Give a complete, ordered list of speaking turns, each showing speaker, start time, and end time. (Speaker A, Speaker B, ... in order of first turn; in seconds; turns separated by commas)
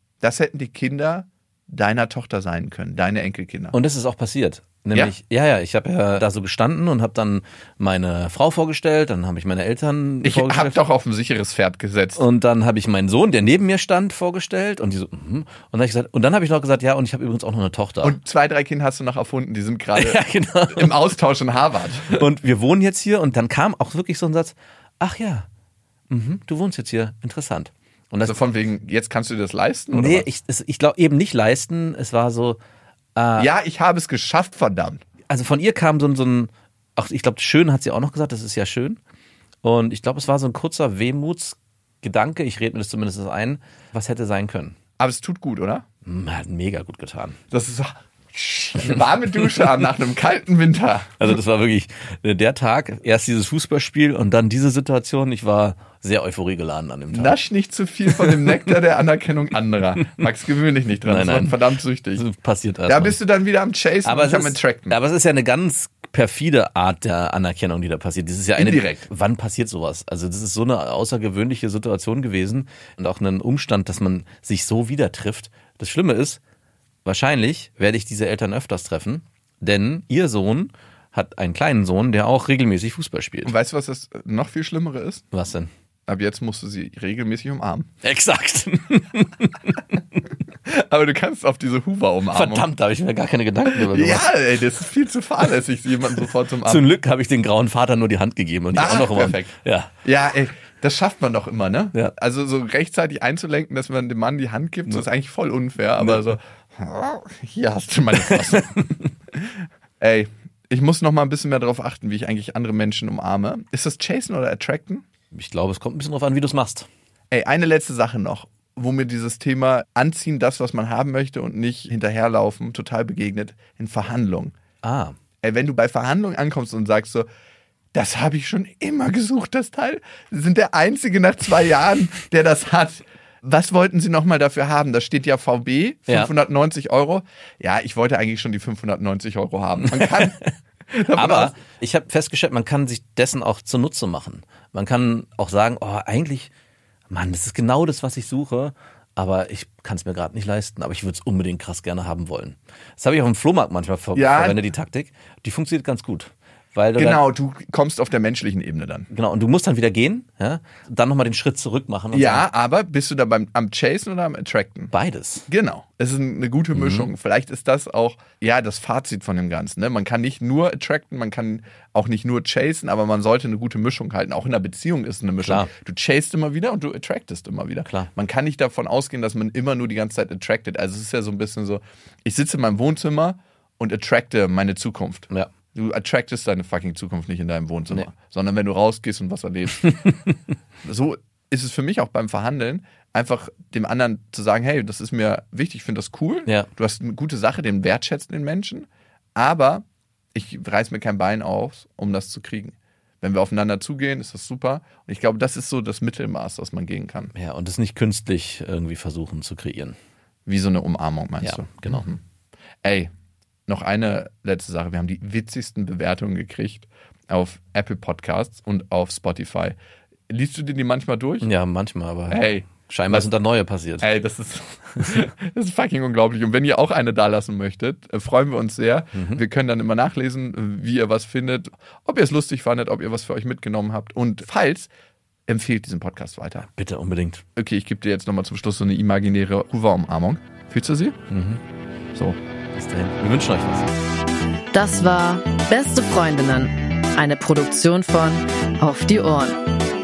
Speaker A: 0.2-3.8, Speaker B: 3.7-10.8, Speaker A: 10.2-12.2, Speaker B: 12.2-18.2, Speaker A: 18.0-22.2, Speaker B: 19.9-20.9, Speaker B: 22.1-25.4, Speaker B: 26.1-28.4, Speaker A: 28.2-30.3, Speaker B: 29.9-32.6, Speaker B: 33.1-33.5, Speaker A: 33.4-35.0, Speaker B: 35.3-39.0, Speaker B: 39.6-44.8, Speaker A: 45.0-45.8, Speaker B: 46.0-47.4, Speaker A: 47.5-51.3, Speaker B: 51.2-57.4, Speaker A: 57.1-62.2, Speaker B: 61.1-61.6, Speaker B: 62.1-63.2, Speaker A: 62.9-65.0, Speaker B: 64.0-76.4, Speaker A: 68.5-69.1, Speaker B: 77.0-83.5, Speaker A: 83.4-85.3, Speaker B: 85.3-85.7, Speaker A: 86.1-87.9, Speaker B: 88.0-90.0, Speaker A: 90.6-92.7, Speaker B: 92.3-94.3, Speaker A: 93.7-96.8, Speaker B: 96.6-99.9, Speaker A: 98.7-99.5, Speaker A: 100.0-115.0, Speaker B: 108.2-108.9, Speaker B: 115.3-116.9, Speaker A: 117.3-124.5, Speaker B: 124.8-125.2, Speaker A: 125.4-127.2, Speaker A: 127.9-141.5, Speaker B: 139.8-140.5, Speaker B: 141.1-146.5, Speaker B: 147.1-157.2, Speaker A: 154.1-154.6, Speaker A: 157.0-159.1, Speaker B: 159.1-162.5, Speaker A: 162.1-164.9, Speaker B: 164.9-165.5, Speaker A: 165.5-190.0, Speaker B: 166.7-167.1, Speaker B: 175.4-175.7, Speaker B: 189.8-190.3, Speaker A: 190.8-207.3, Speaker B: 207.3-209.9, Speaker A: 210.4-212.2, Speaker B: 211.4-212.0, Speaker A: 212.8-213.1, Speaker A: 213.7-219.8, Speaker A: 220.3-221.5, Speaker B: 221.4-224.1, Speaker A: 222.3-223.3, Speaker A: 224.0-234.9, Speaker B: 229.1-229.4, Speaker A: 235.5-236.7, Speaker B: 236.7-237.4, Speaker A: 237.6-241.2, Speaker B: 241.3-241.6, Speaker B: 242.7-243.9, Speaker C: 244.7-249.6